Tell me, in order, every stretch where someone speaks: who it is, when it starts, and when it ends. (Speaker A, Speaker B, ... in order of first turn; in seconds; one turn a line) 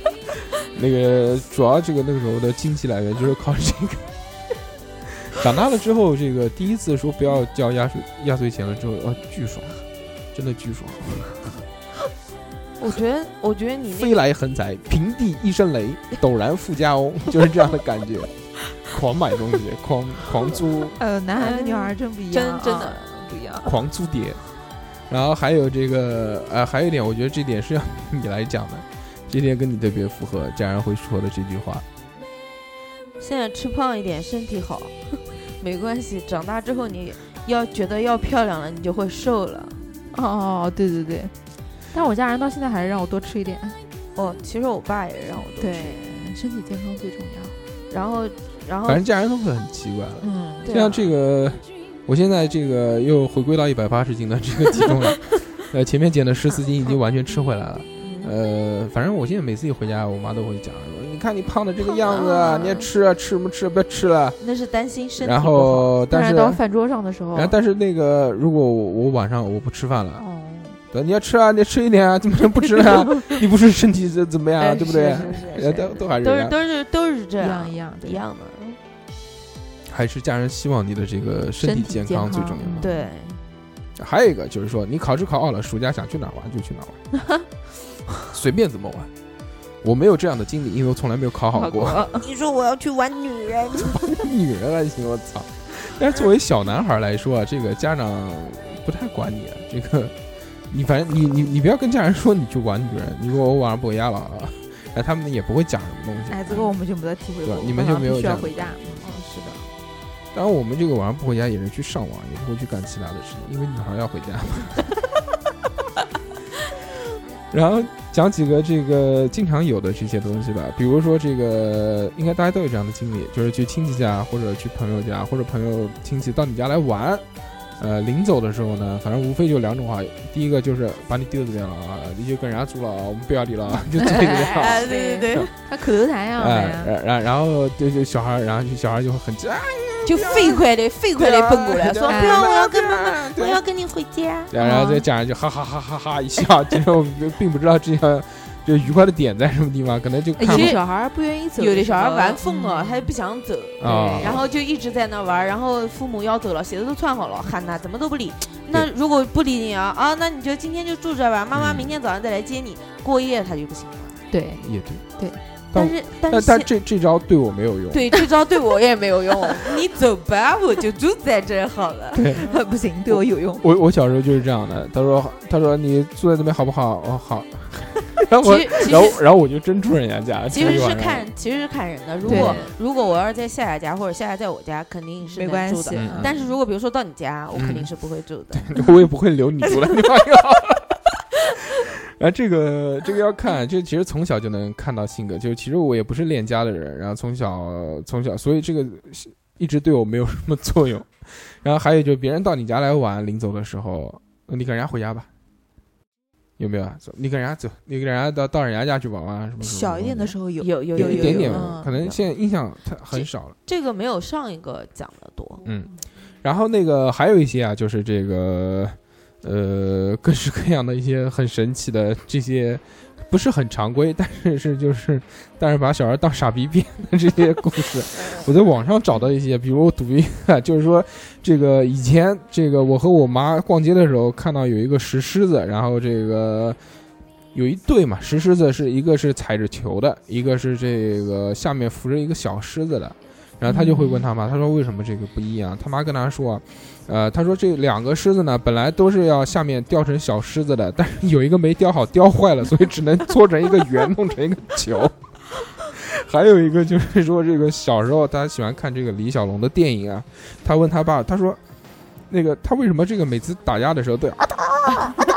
Speaker A: 0.7-4.1
Speaker A: 5.2-9.8
Speaker A: 10.3-11.5
Speaker B: 12.8-14.2
Speaker A: 13.9-21.0
Speaker C: 21.0-23.7
Speaker B: 21.4-23.0
Speaker A: 23.6-24.4
Speaker A: 25.1-31.8
Speaker B: 33.2-39.9
Speaker C: 40.1-41.3
Speaker C: 41.9-43.8
Speaker B: 44.1-46.0
Speaker C: 45.6-47.5
Speaker B: 47.9-49.0
Speaker A: 48.9-64.4
Speaker C: 50.2-50.7
Speaker B: 50.6-51.1
Speaker B: 58.0-58.3
Speaker B: 61.9-62.9
Speaker B: 64.4-65.9
Speaker A: 65.2-66.6
Speaker C: 66.1-67.5
Speaker A: 67.3-70.2
Speaker C: 70.2-70.8
Speaker A: 70.9-76.5
Speaker B: 74.6-78.8
Speaker C: 77.4-78.2
Speaker A: 79.9-82.9
Speaker C: 81.6-83.1
Speaker B: 82.7-83.4
Speaker A: 84.0-87.0
Speaker A: 88.3-89.1
Speaker A: 89.8-92.0
Speaker C: 91.5-92.3
Speaker B: 92.1-94.1
Speaker A: 93.8-100.2
Speaker A: 100.7-106.7
Speaker C: 106.3-109.6
Speaker A: 107.4-109.1
Speaker A: 110.3-114.9
Speaker A: 117.5-127.2
Speaker A: 127.8-134.9
Speaker C: 134.0-136.9
Speaker B: 134.5-135.5
Speaker A: 136.4-143.6
Speaker B: 140.1-144.5
Speaker C: 142.1-142.5
Speaker A: 144.5-150.8
Speaker C: 144.6-145.0
Speaker C: 150.4-153.1
Speaker B: 150.4-150.8
Speaker B: 151.6-164.2
Speaker A: 153.8-154.4
Speaker C: 153.8-154.4
Speaker A: 161.5-161.9
Speaker C: 164.3-164.7
Speaker A: 164.6-165.0
Speaker A: 165.7-168.1
Speaker B: 165.7-166.7
Speaker B: 167.9-172.3
Speaker A: 172.2-172.5
Speaker C: 172.2-173.6
Speaker A: 173.1-181.3
Speaker B: 178.4-179.2
Speaker B: 180.5-188.9
Speaker A: 182.2-182.6
Speaker C: 182.2-182.7
Speaker C: 185.3-186.5
Speaker A: 185.9-186.4
Speaker A: 187.5-187.9
Speaker A: 188.5-205.3
Speaker A: 206.6-210.4
Speaker C: 209.6-211.9
Speaker B: 210.6-212.2
Speaker A: 210.9-213.6
Speaker B: 213.1-215.7
Speaker A: 215.6-215.9
Speaker A: 216.4-236.8
Speaker A: 237.5-255.2
Speaker C: 243.7-244.2
Speaker A: 255.8-261.6
Speaker A: 262.3-264.9